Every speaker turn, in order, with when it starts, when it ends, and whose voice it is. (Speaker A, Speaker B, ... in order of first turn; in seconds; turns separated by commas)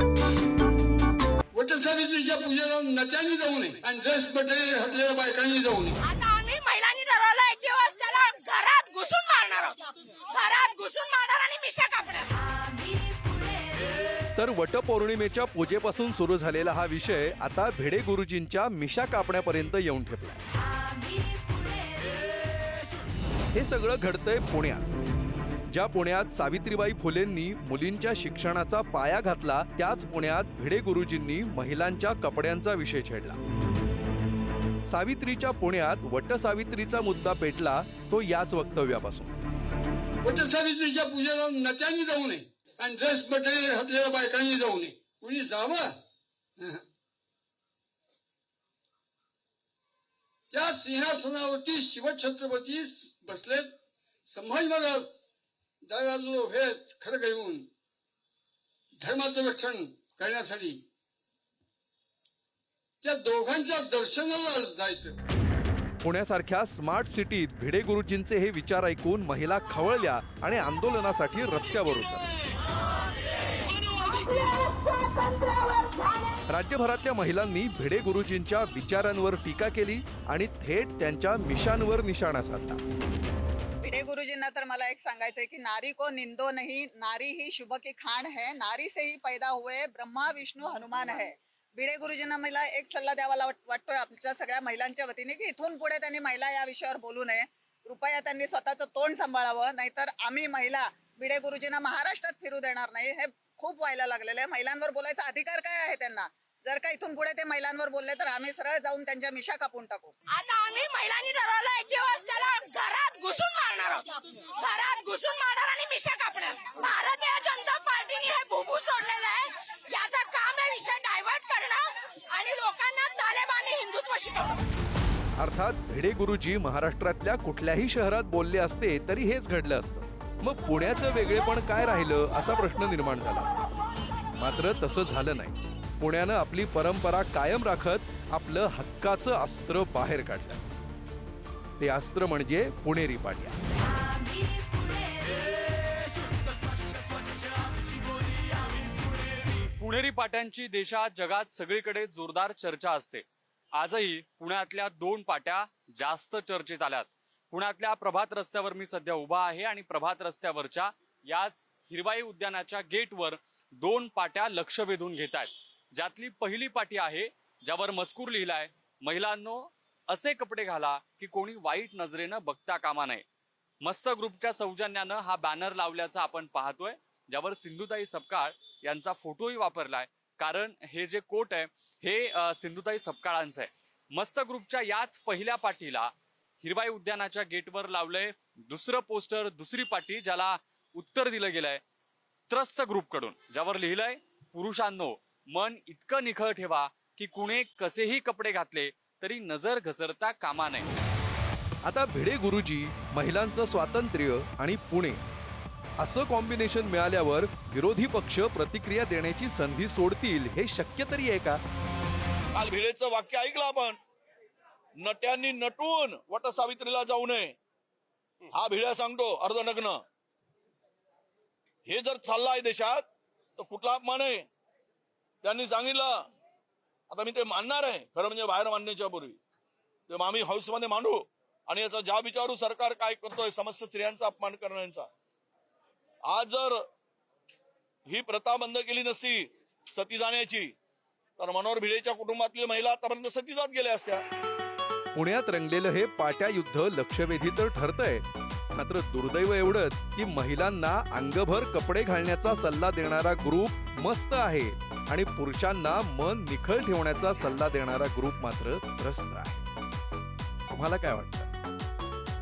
Speaker A: 1.5-6.0, Speaker B: 6.0-12.4, Speaker C: 14.4-20.4, Speaker C: 23.5-24.9, Speaker C: 25.7-33.4, Speaker C: 34.9-39.3, Speaker A: 40.2-46.0, Speaker A: 46.6-46.8, Speaker A: 50.5-53.8, Speaker A: 54.3-55.1, Speaker A: 55.8-57.7, Speaker A: 59.0-60.8, Speaker A: 63.0-65.2, Speaker C: 66.0-72.3, Speaker C: 76.5-82.8, Speaker D: 83.8-110.2, Speaker B: 110.3-124.6, Speaker C: 125.4-133.7, Speaker C: 134.4-140.7, Speaker C: 141.8-143.6, Speaker E: 149.6-173.2, Speaker E: 173.8-191.8, Speaker E: 192.5-200.9, Speaker C: 201.8-205.2, Speaker C: 206.0-211.6, Speaker F: 212.5-214.0, Speaker F: 215.0-217.6, Speaker F: 218.5-220.0, Speaker F: 221.9-224.5, Speaker F: 225.4-226.3, Speaker F: 227.1-229.4, Speaker F: 230.1-235.1, Speaker F: 236.3-236.8, Speaker F: 238.1-240.7, Speaker F: 241.4-244.2, Speaker C: 245.1-259.6, Speaker C: 260.7-261.5